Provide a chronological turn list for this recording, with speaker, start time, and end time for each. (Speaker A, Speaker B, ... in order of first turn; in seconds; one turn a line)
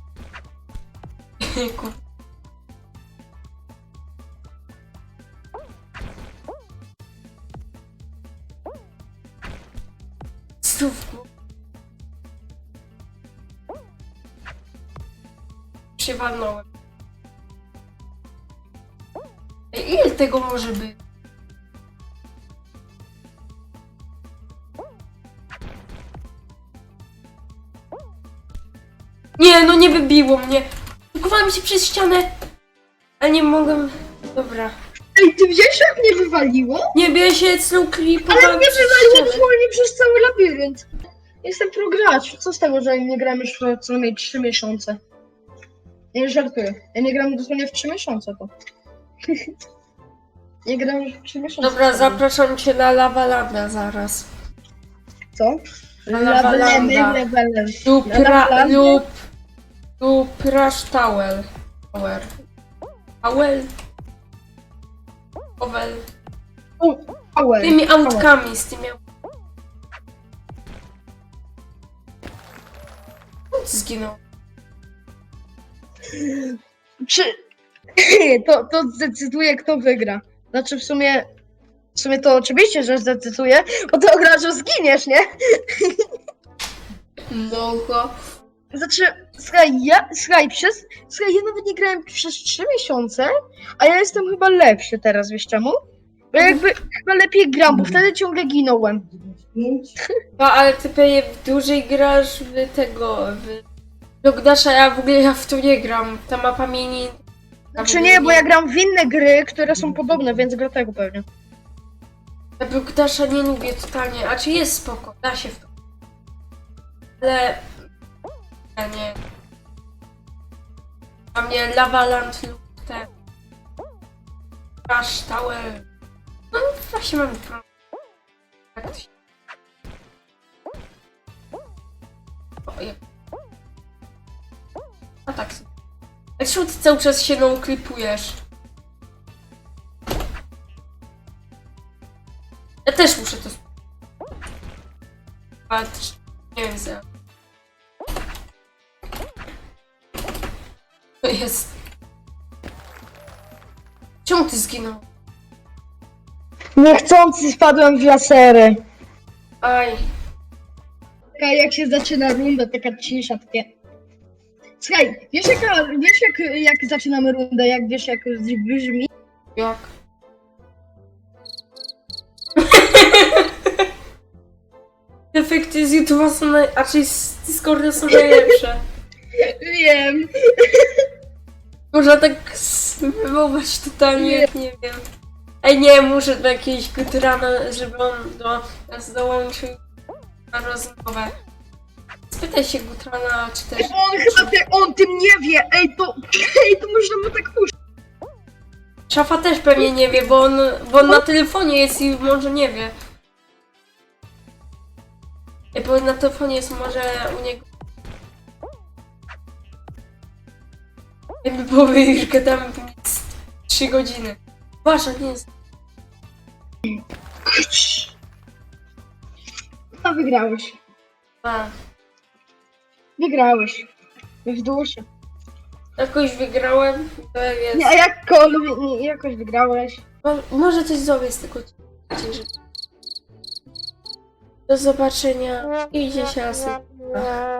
Speaker A: 1.4-2.0
Speaker A: 10.6-11.3
Speaker A: 16.0-16.7
Speaker A: 19.7-21.0
Speaker A: 29.4-32.3
Speaker A: 33.2-34.8
Speaker B: 35.1-36.9
Speaker A: 36.9-39.5
Speaker B: 38.3-40.9
Speaker B: 41.4-45.0
Speaker B: 46.1-48.5
Speaker B: 50.6-52.2
Speaker A: 51.6-54.3
Speaker B: 55.3-59.0
Speaker A: 56.1-57.2
Speaker A: 57.9-59.1
Speaker A: 60.0-62.3
Speaker A: 63.2-63.7
Speaker A: 65.6-66.0
Speaker B: 66.8-68.3
Speaker A: 67.6-69.0
Speaker A: 73.5-74.2
Speaker B: 76.1-77.3
Speaker B: 78.0-81.3
Speaker B: 81.9-86.1
Speaker A: 87.3-88.1
Speaker B: 88.7-95.8
Speaker B: 96.3-100.0
Speaker A: 100.4-103.6
Speaker A: 104.2-107.2
Speaker B: 107.8-111.2
Speaker A: 107.8-108.5
Speaker A: 112.6-115.7
Speaker A: 117.2-117.7
Speaker A: 118.8-119.2
Speaker A: 121.3-123.1
Speaker A: 124.9-125.9
Speaker A: 126.5-127.6
Speaker A: 128.8-129.1
Speaker A: 132.7-133.0
Speaker A: 135.3-135.7
Speaker A: 136.4-138.4
Speaker A: 142.9-143.6
Speaker A: 145.7-147.0
Speaker A: 151.2-151.7
Speaker A: 154.2-155.1
Speaker B: 156.8-158.8
Speaker A: 159.6-160.0
Speaker B: 161.3-163.7
Speaker B: 164.8-169.1
Speaker A: 169.6-169.9
Speaker A: 172.6-173.8
Speaker A: 175.3-178.8
Speaker B: 178.2-178.5
Speaker B: 179.3-181.1
Speaker A: 181.9-185.0
Speaker B: 184.2-184.5
Speaker A: 185.6-189.8
Speaker A: 190.5-191.3
Speaker A: 192.3-194.5
Speaker B: 193.8-197.7
Speaker A: 199.1-202.9
Speaker A: 205.7-207.7
Speaker A: 211.4-215.5
Speaker B: 216.9-218.1
Speaker B: 220.0-220.8
Speaker A: 221.4-221.7
Speaker B: 223.2-223.9
Speaker B: 224.4-225.1
Speaker A: 226.0-228.0
Speaker B: 227.7-230.0
Speaker A: 230.2-232.5
Speaker A: 234.7-237.4